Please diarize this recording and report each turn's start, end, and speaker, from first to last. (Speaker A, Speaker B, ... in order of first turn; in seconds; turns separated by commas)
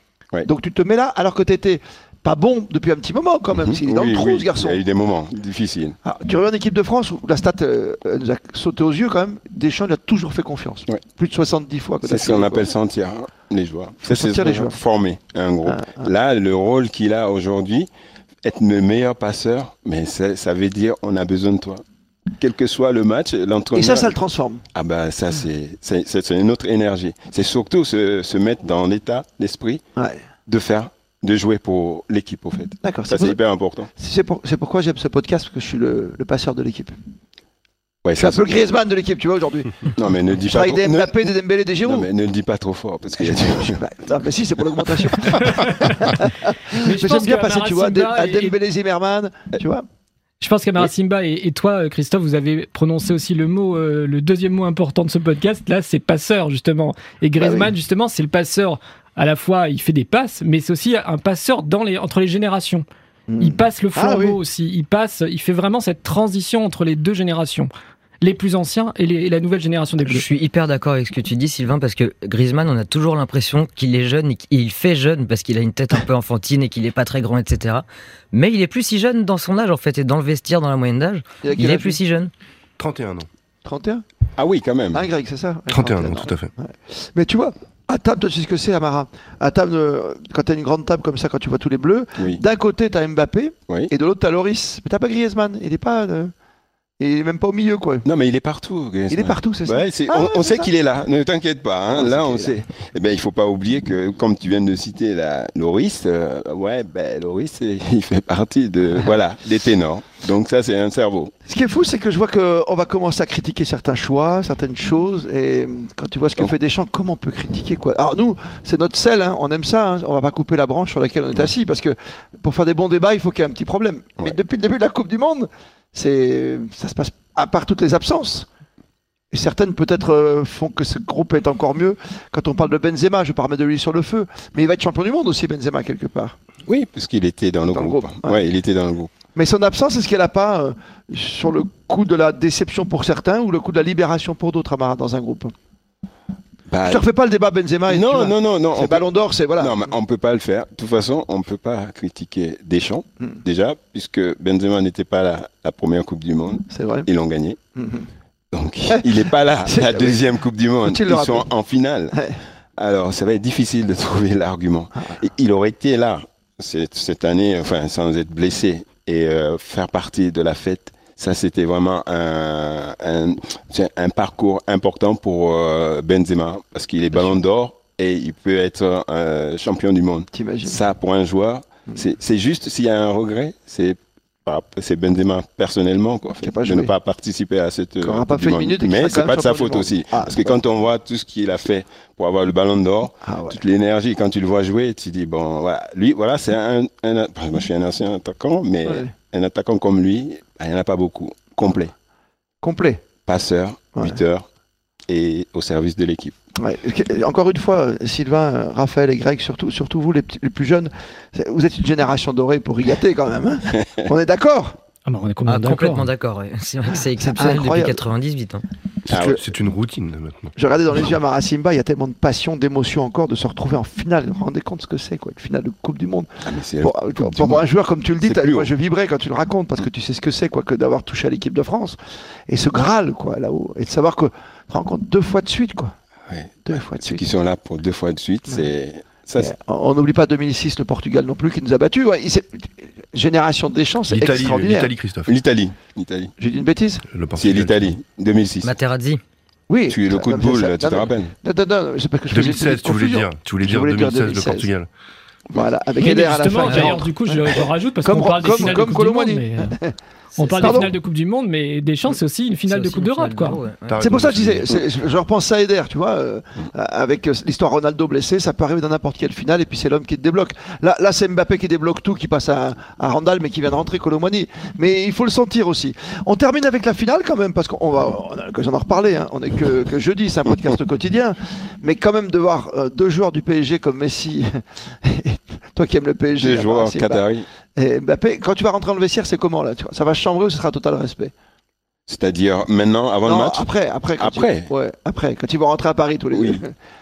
Speaker A: 0.4-4.8, Speaker B: 3.5-6.0, Speaker A: 6.0-12.7, Speaker B: 12.0-17.9, Speaker A: 14.0-14.8, Speaker A: 15.7-16.1, Speaker B: 18.4-21.8, Speaker B: 22.4-24.1, Speaker A: 23.7-24.6, Speaker B: 24.7-29.8, Speaker B: 30.5-33.9, Speaker A: 32.8-33.4, Speaker A: 33.9-36.9, Speaker B: 38.0-38.5, Speaker A: 38.2-39.9, Speaker B: 39.9-41.3, Speaker A: 40.5-42.1, Speaker B: 41.8-43.8, Speaker A: 43.2-49.8, Speaker C: 45.5-46.1, Speaker C: 46.7-48.6, Speaker C: 50.4-62.8, Speaker A: 57.4-57.7, Speaker A: 63.3-64.4, Speaker C: 63.4-67.7, Speaker C: 68.2-70.2, Speaker D: 70.0-82.3, Speaker A: 81.4-82.0, Speaker E: 82.8-83.3, Speaker A: 83.6-84.0, Speaker B: 84.4-85.0, Speaker A: 84.9-96.3, Speaker E: 85.7-86.5, Speaker B: 92.2-92.4, Speaker A: 97.0-98.0, Speaker B: 98.0-111.3, Speaker A: 99.1-100.7, Speaker A: 101.9-102.6, Speaker A: 111.5-128.5, Speaker A: 129.3-136.3, Speaker B: 136.7-139.1, Speaker A: 137.7-138.4, Speaker A: 139.3-145.5, Speaker B: 146.7-147.1, Speaker A: 146.8-149.8, Speaker B: 147.9-157.6, Speaker A: 156.7-157.1, Speaker A: 157.8-158.1, Speaker B: 158.5-162.2, Speaker A: 158.9-160.2, Speaker A: 160.8-161.5, Speaker A: 162.1-162.4, Speaker B: 162.8-201.9, Speaker A: 180.3-180.8, Speaker A: 186.4-186.9, Speaker A: 188.0-190.6, Speaker A: 193.2-193.6, Speaker A: 198.8-199.1, Speaker A: 202.6-203.0, Speaker B: 203.2-204.5, Speaker B: 205.1-206.3, Speaker A: 206.6-214.8, Speaker C: 215.1-216.1, Speaker D: 215.4-218.6, Speaker A: 217.2-218.0, Speaker B: 219.1-219.4, Speaker A: 219.1-219.4, Speaker E: 219.1-220.5, Speaker A: 220.6-226.3, Speaker B: 226.4-227.7, Speaker A: 226.8-232.0, Speaker B: 228.2-228.7, Speaker A: 232.5-235.9, Speaker B: 236.3-239.5, Speaker A: 236.7-237.2, Speaker A: 239.4-244.9, Speaker E: 244.1-245.3, Speaker B: 245.2-246.3, Speaker A: 246.4-247.0, Speaker E: 247.1-247.9, Speaker B: 247.3-248.7, Speaker D: 248.6-249.2, Speaker A: 249.7-254.7, Speaker B: 249.9-251.3, Speaker E: 252.3-254.9, Speaker A: 255.5-257.5, Speaker C: 256.0-259.8, Speaker D: 256.6-257.0, Speaker A: 258.0-259.9, Speaker D: 260.3-260.9, Speaker C: 260.4-263.6, Speaker A: 260.6-260.9, Speaker D: 262.7-264.1, Speaker E: 263.9-264.7, Speaker A: 264.0-287.2, Speaker B: 286.4-287.4, Speaker A: 287.8-291.3, Speaker B: 292.1-294.7, Speaker A: 293.2-296.7, Speaker B: 296.3-296.6